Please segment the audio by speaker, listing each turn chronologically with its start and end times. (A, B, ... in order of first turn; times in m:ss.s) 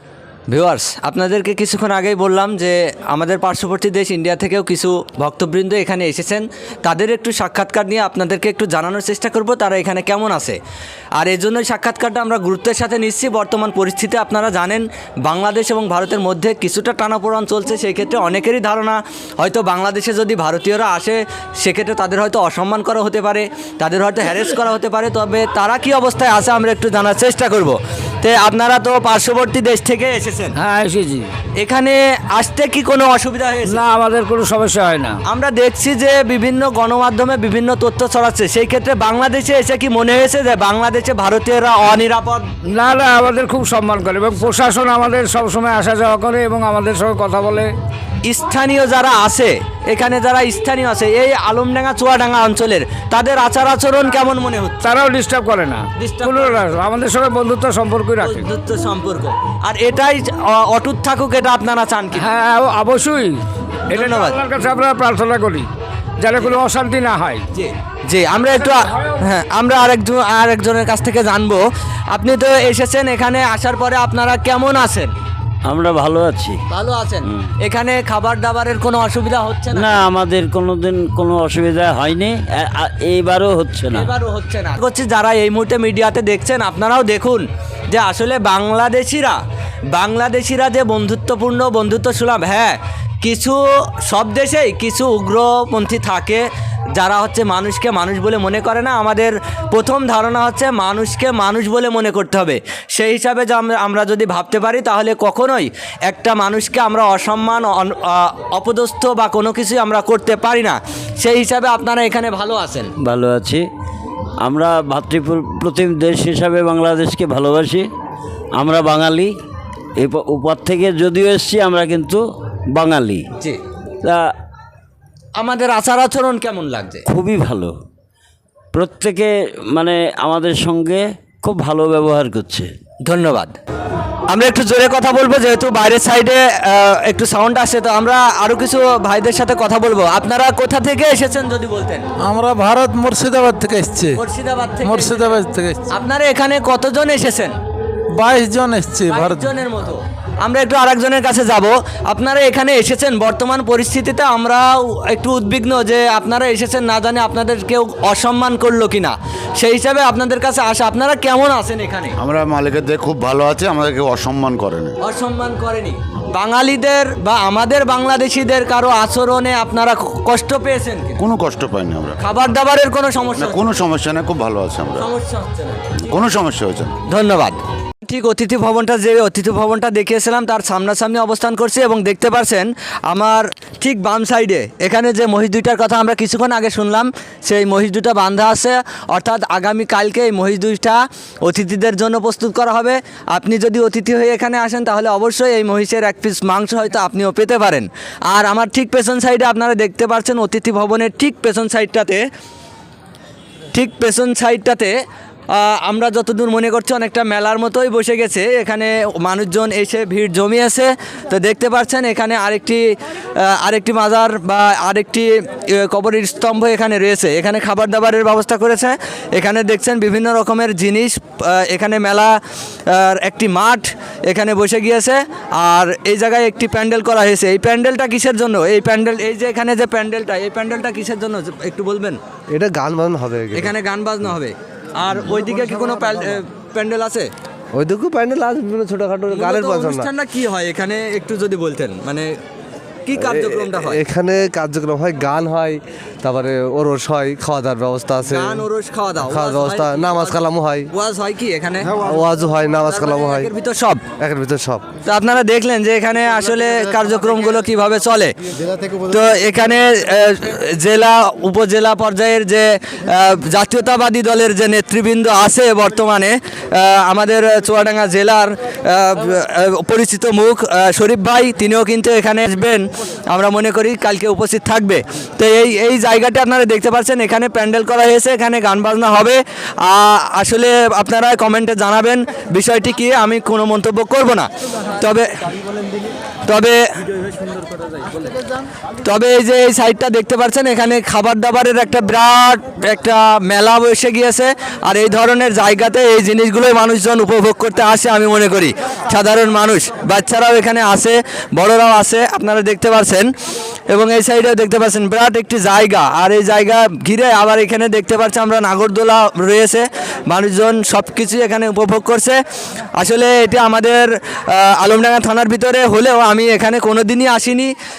0:00.5-0:10.6 A
0:11.2-0:30.6 A
0:30.6-0:31.3 B
0:31.6-0:33.8 A
0:33.7-0:35.2 B
0:35.3-0:42.5 A
0:42.7-0:47.7 B
0:48.2-0:54.8 A
0:54.8-0:58.5 B
0:56.0-0:56.8 A
0:58.2-1:02.3 A
1:02.2-1:05.7 B
1:03.9-1:04.4 A
1:06.2-1:07.4 B
1:07.5-1:15.1 A
1:08.6-1:09.0 B
1:15.6-1:16.6 C
1:16.7-1:20.0 A
1:19.7-1:24.1 C
1:23.9-1:29.4 A
1:29.9-1:52.9 A
1:53.0-1:53.6 C
1:54.4-1:57.9 C
1:58.6-1:59.4 C
2:00.0-2:03.3 C
2:04.0-2:04.3 C
2:05.4-2:07.1 A
2:07.1-2:07.8 C
2:08.7-2:12.7 C
2:13.0-2:13.6 A
2:14.3-2:22.0 A
2:22.2-2:24.2 D
2:24.2-2:27.6 A
2:24.8-2:25.8 D
2:28.1-2:29.5 D
2:29.1-2:42.2 A
2:42.2-2:45.0 E
2:45.0-2:51.2 A
2:51.2-2:52.2 E
2:52.2-2:53.7 A
2:53.4-2:55.1 E
2:55.0-2:56.1 A
2:56.1-2:57.0 E
2:57.1-3:22.3 A
3:23.7-3:24.9 A
3:25.5-3:52.2 A
3:52.5-3:53.7 F
3:53.5-3:57.3 A
3:57.8-4:00.1 F
3:59.3-4:02.3 A
4:03.1-4:04.0 A
4:03.2-4:08.6 F
4:08.2-4:12.0 A
4:09.2-4:10.9 F
4:12.0-4:13.5 F
4:12.9-4:14.0 A
4:14.2-4:14.9 F
4:15.0-4:18.3 A
4:19.0-4:45.3 A
4:46.5-4:46.8 A
4:49.0-5:03.3 A
5:03.9-5:12.4 A
5:13.0-5:17.7 A